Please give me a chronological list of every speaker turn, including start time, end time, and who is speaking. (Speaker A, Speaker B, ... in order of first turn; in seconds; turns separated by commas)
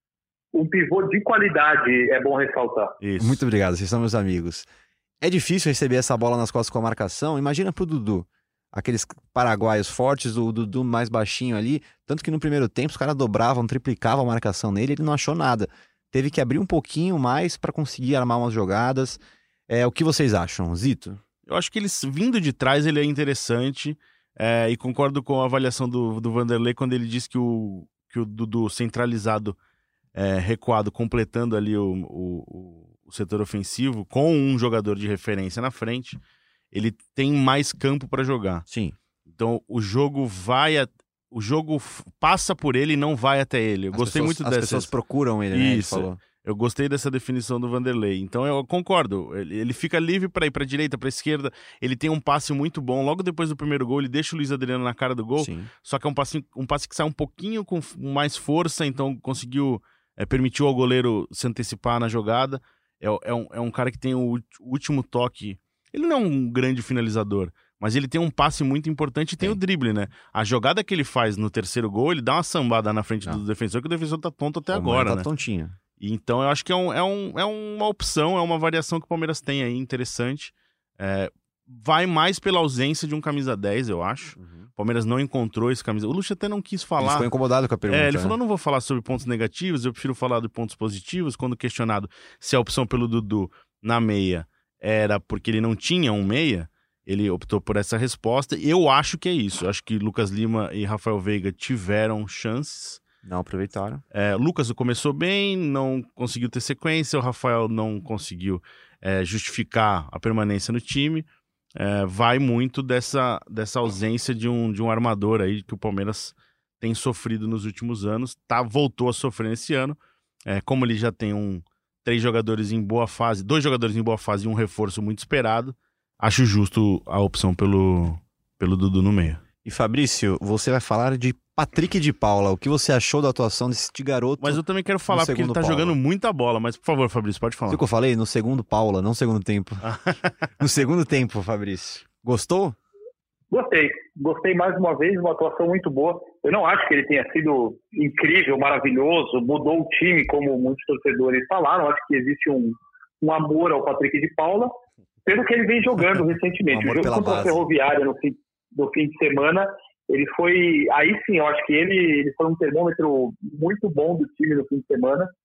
Speaker A: 0.5-3.0, Speaker B: 3.0-3.4, Speaker C: 3.2-4.7, Speaker C: 5.2-21.2, Speaker B: 21.5-29.6, Speaker B: 30.1-36.2, Speaker B: 36.7-38.6, Speaker C: 38.7-39.0, Speaker B: 39.3-44.9, Speaker C: 43.9-46.2, Speaker B: 45.5-75.3, Speaker C: 55.4-55.7, Speaker C: 74.7-75.8, Speaker B: 76.0-87.3, Speaker C: 84.4-84.7, Speaker C: 87.0-88.4, Speaker B: 87.9-103.0, Speaker C: 103.2-104.0, Speaker B: 104.1-129.4, Speaker C: 129.6-135.9, Speaker B: 134.4-137.8, Speaker C: 137.7-139.9, Speaker B: 139.8-140.3, Speaker C: 140.6-142.8, Speaker A: 143.5-154.8, Speaker A: 155.3-165.3, Speaker C: 156.7-157.6